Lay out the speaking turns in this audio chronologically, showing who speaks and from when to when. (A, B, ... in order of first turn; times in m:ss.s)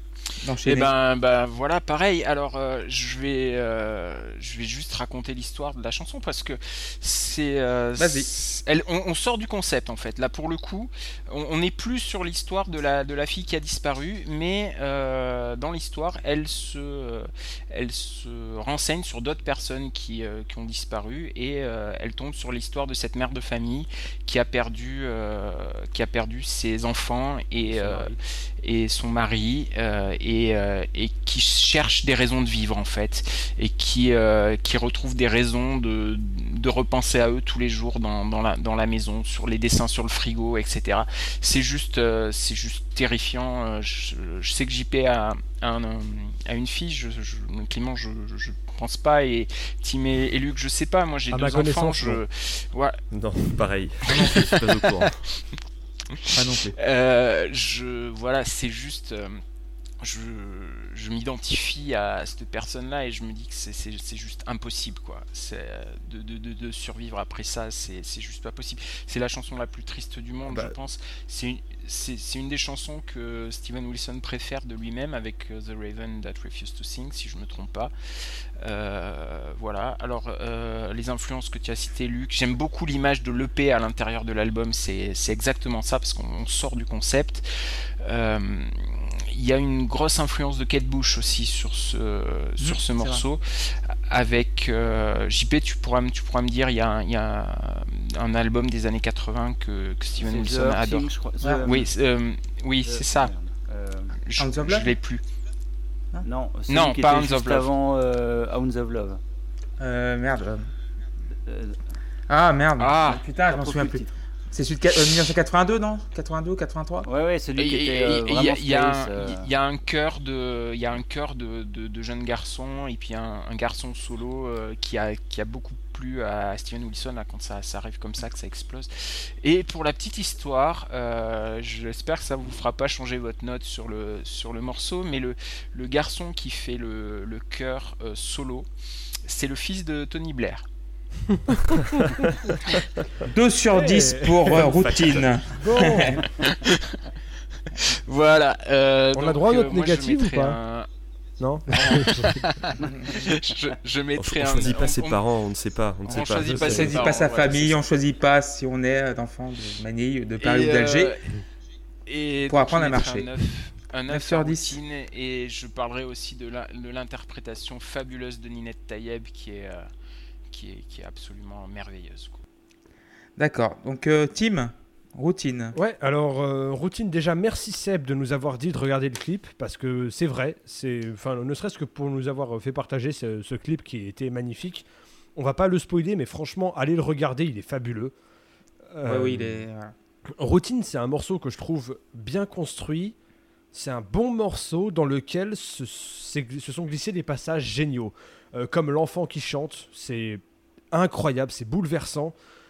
0:00.4-0:00.9 A
0:00.6-0:53.0 B
0:08.0-0:08.3 A
0:51.3-0:52.2 C
0:53.1-0:55.2 D
0:54.1-0:55.0 B
0:56.1-0:59.4 B
0:56.3-0:56.8 A
1:00.0-1:41.1 B
1:10.5-1:10.7 D
1:32.6-1:33.2 A
1:40.2-1:41.9 E
1:41.6-1:43.3 B
1:42.8-1:44.2 E
1:44.2-1:45.2 B
1:44.4-1:44.9 A
1:46.2-1:49.2 E
1:46.7-1:47.7 B
1:49.8-1:50.7 A
1:51.4-1:51.8 E
1:52.3-1:57.0 A
1:52.8-1:53.2 B
1:53.4-1:54.2 E
1:57.0-1:59.4 E
1:57.6-2:18.7 B
2:19.2-2:20.7 B
2:21.4-2:22.5 C
2:23.3-2:26.2 A
2:23.7-2:26.2 C
2:26.4-2:27.0 B
2:27.7-2:30.9 B
2:29.1-2:30.6 C
2:31.4-2:32.5 C
2:31.8-2:35.2 B
2:34.2-2:37.1 D
2:36.1-2:37.8 B
2:36.5-2:41.2 A
2:36.5-2:37.0 C
2:40.4-2:41.3 B
2:42.1-2:49.9 B
2:42.5-2:43.3 A
2:44.1-2:44.8 A
2:50.5-2:52.4 B
2:53.4-2:55.8 A
2:55.7-3:04.8 C
3:05.4-3:08.1 C
3:08.9-3:09.6 C
3:09.0-3:09.9 A
3:10.3-3:13.1 C
3:13.7-3:22.3 C